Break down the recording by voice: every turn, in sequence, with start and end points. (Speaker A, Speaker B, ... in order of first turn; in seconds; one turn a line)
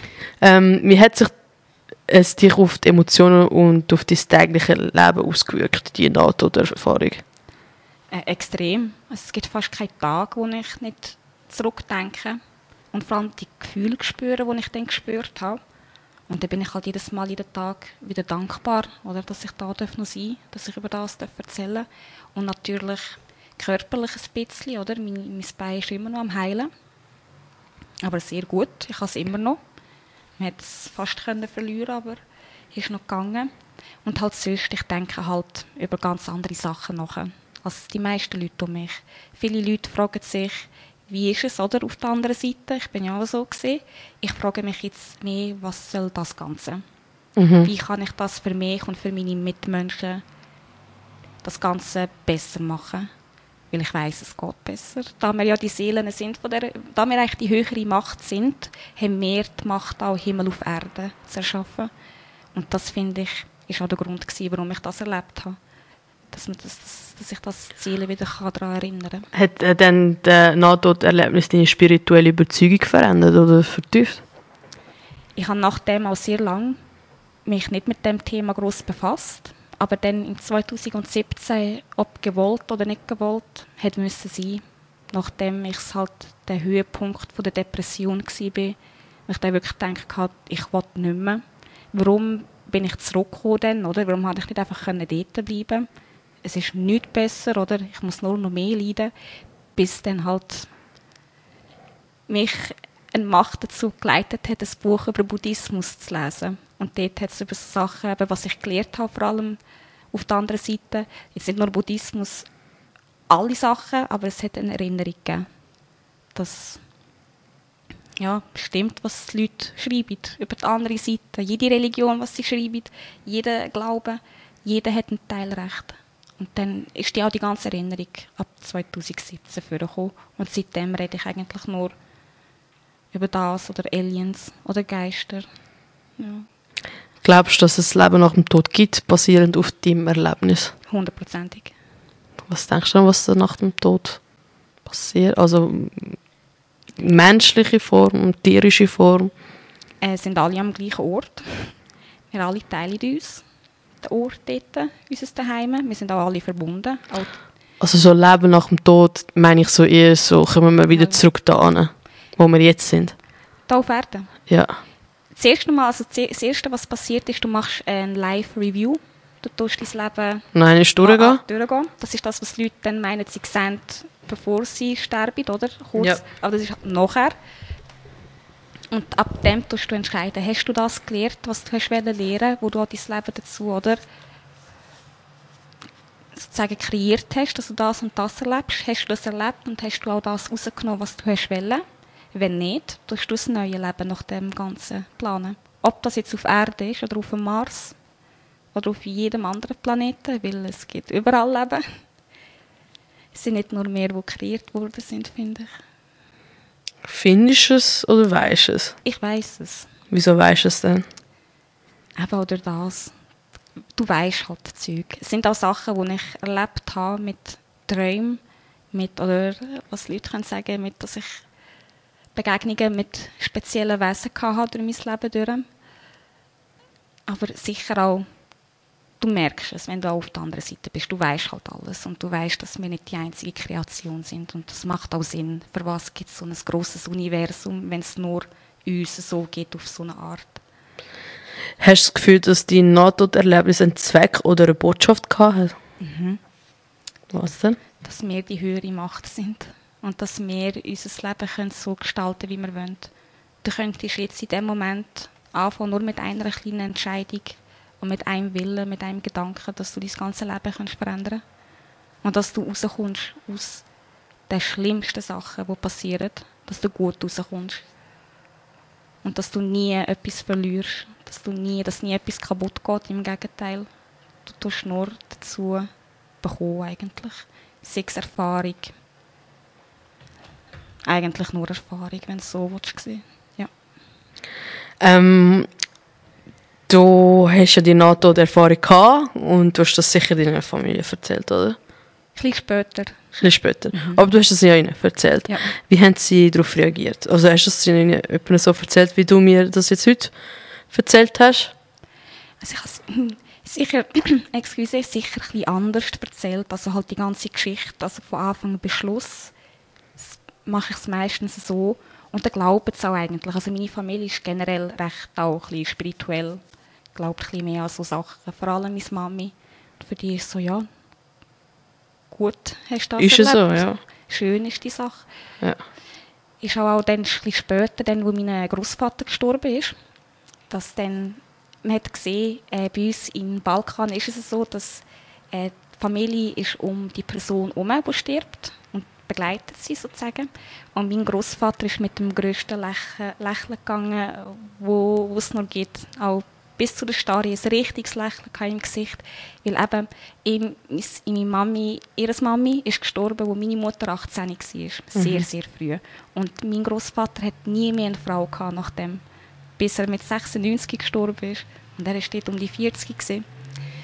Speaker A: 0.4-1.4
Speaker A: 2.1-7.2
Speaker B: 8.1-12.4
Speaker B: 12.9-15.6
Speaker B: 16.3-26.7
Speaker B: 28.0-29.6
Speaker B: 30.4-32.2
Speaker B: 32.7-33.5
Speaker B: 34.0-46.8
Speaker A: 47.4-47.7
Speaker B: 47.6-50.2
Speaker B: 51.4-53.1
Speaker B: 53.7-61.9
Speaker B: 62.5-65.6
Speaker B: 66.3-69.3
Speaker A: 69.3-74.2
Speaker B: 75.4-76.8
Speaker B: 77.5-88.8
Speaker B: 89.3-95.9
Speaker B: 96.4-99.1
Speaker B: 99.8-100.7
Speaker B: 102.3-109.6
Speaker B: 110.1-112.5
Speaker B: 113.3-115.5
Speaker B: 116.3-116.8
Speaker B: 118.2-131.9
Speaker B: 133.1-135.5
Speaker B: 136.2-136.5
Speaker A: 137.2-140.7
Speaker B: 140.9-141.7
Speaker A: 142.5-144.2
Speaker A: 144.8-146.2
Speaker A: 147.0-149.3
Speaker B: 150.0-151.8
Speaker B: 152.3-153.4
Speaker B: 154.0-157.4
Speaker A: 157.8-163.2
Speaker B: 160.9-161.2
Speaker B: 163.7-164.4
Speaker A: 164.5-164.8
Speaker B: 165.3-170.5
Speaker A: 170.5-171.4
Speaker B: 171.0-177.4
Speaker B: 178.9-184.0
Speaker B: 186.3-198.0
Speaker B: 198.8-201.9
Speaker B: 203.3-205.7
Speaker A: 207.0-209.0
Speaker B: 209.0-209.9
Speaker A: 210.1-211.1
Speaker B: 212.2-213.1
Speaker B: 214.0-218.4
Speaker B: 218.9-221.4
Speaker B: 222.3-225.7
Speaker B: 227.3-228.3
Speaker B: 229.2-240.6
Speaker A: 241.8-245.8
Speaker B: 246.0-246.4
Speaker A: 247.3-247.8
Speaker B: 248.0-253.1
Speaker B: 253.6-261.4
Speaker B: 262.2-263.8
Speaker B: 264.5-267.8
Speaker B: 269.2-273.9
Speaker B: 274.4-275.9
Speaker B: 276.4-278.9
Speaker B: 281.1-283.7
Speaker A: 285.0-285.7
Speaker A: 286.9-291.8
Speaker B: 292.4-293.4
Speaker A: 293.4-300.3
Speaker B: 293.9-294.2
Speaker A: 300.9-301.7
Speaker B: 302.6-309.5
Speaker B: 310.2-316.6
Speaker B: 317.1-320.9
Speaker B: 322.3-325.2
Speaker A: 323.2-324.0
Speaker B: 326.6-329.9
Speaker B: 330.7-359.2
Speaker A: 355.2-355.4
Speaker B: 359.8-363.4